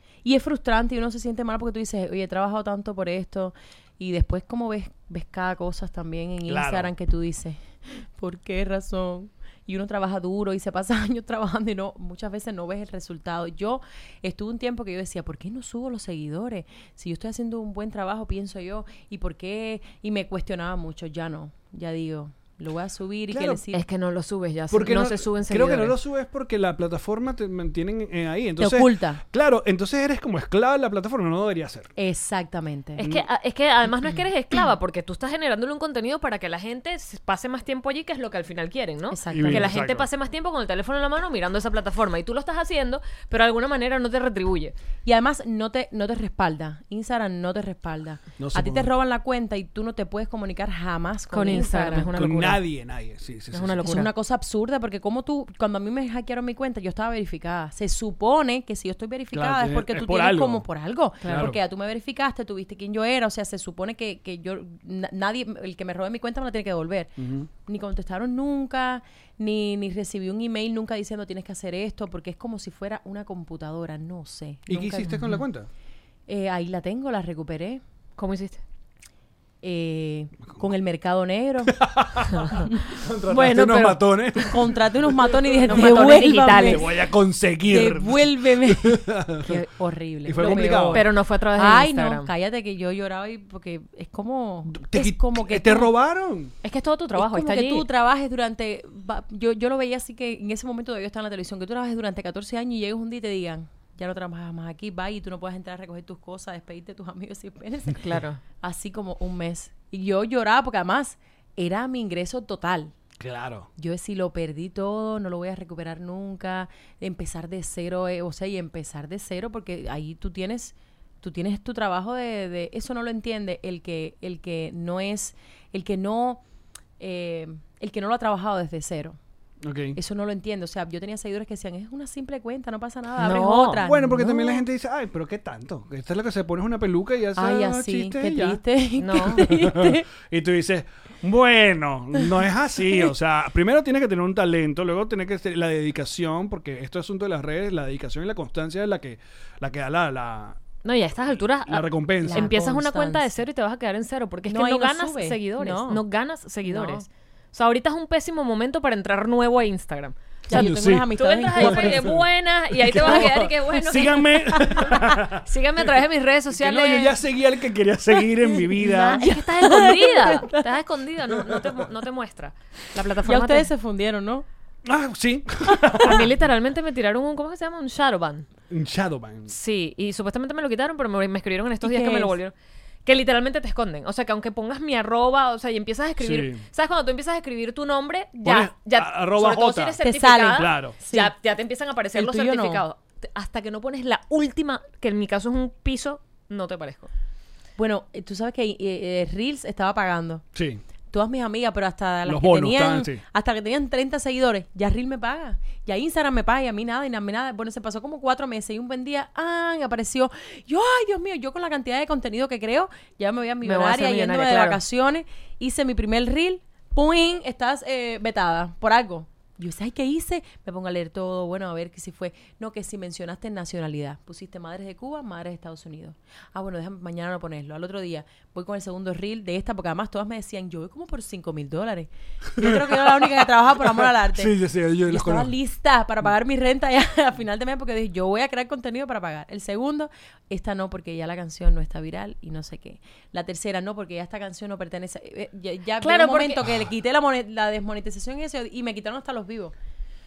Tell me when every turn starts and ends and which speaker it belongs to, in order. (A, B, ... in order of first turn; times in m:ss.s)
0:00.2-0:23.8 A
0:06.5-0:06.9 B
0:23.3-0:23.6 B
0:23.7-0:26.0 C
0:24.7-0:31.9 B
0:28.6-0:29.2 A
0:32.0-0:33.0 A
0:33.0-0:33.3 B
0:33.0-0:44.7 C
0:39.1-0:39.7 A
0:39.3-0:40.1 B
0:45.0-0:52.1 A
0:48.4-0:48.9 B
0:51.3-0:52.6 C
0:52.1-0:54.1 B
0:53.5-0:54.1 C
0:53.8-1:07.1 A
0:59.3-1:00.7 B
1:01.2-1:01.5 C
1:01.3-1:01.6 B
1:07.2-1:07.5 B
1:07.7-1:15.4 A
1:14.7-1:15.7 B
1:16.3-1:17.8 A
1:18.2-1:18.6 C
1:19.6-1:21.8 A
1:21.8-1:29.6 B
1:23.3-1:24.5 C
1:24.5-1:26.8 A
1:25.7-1:26.8 C
1:27.7-1:35.9 A
1:30.2-1:31.1 B
1:30.4-1:32.3 C
1:34.7-1:36.5 B
1:36.6-1:37.9 C
1:37.2-1:48.1 A
1:48.0-1:48.4 C
1:48.6-1:52.9 A
1:53.2-1:53.7 B
1:53.8-2:06.4 A
2:07.0-2:09.2 A
2:09.6-2:10.0 B
2:10.0-2:14.6 A
2:13.2-2:13.8 C
2:13.8-2:18.6 B
2:17.4-2:20.1 A
2:19.0-2:19.5 C
2:19.4-2:30.6 B
2:30.8-2:47.2 C
2:31.4-2:32.5 B
2:32.2-2:33.3 A
2:34.5-2:36.0 A
2:36.6-2:37.0 A
2:40.5-2:42.2 A
2:40.5-2:42.3 B
2:42.8-2:45.9 B
2:42.9-2:43.5 A
2:44.5-2:45.0 A
2:46.5-2:49.3 B
2:48.8-2:50.6 A
2:49.1-2:53.7 C
2:53.0-2:54.5 A
2:54.8-2:56.3 B
2:56.0-2:58.5 C
2:58.7-2:59.5 B
2:59.5-3:02.5 C
3:01.8-3:02.4 A
3:03.1-3:17.1 C
3:06.2-3:06.6 B
3:08.4-3:10.0 B
3:10.0-3:11.3 A
3:10.5-3:11.0 B
3:12.2-3:12.8 A
3:17.8-3:20.4 A
3:20.6-3:20.8 B
3:21.1-4:09.8 A
3:22.2-3:23.2 B
3:33.6-3:34.8 C
3:52.6-3:55.5 B
4:06.0-4:06.7 C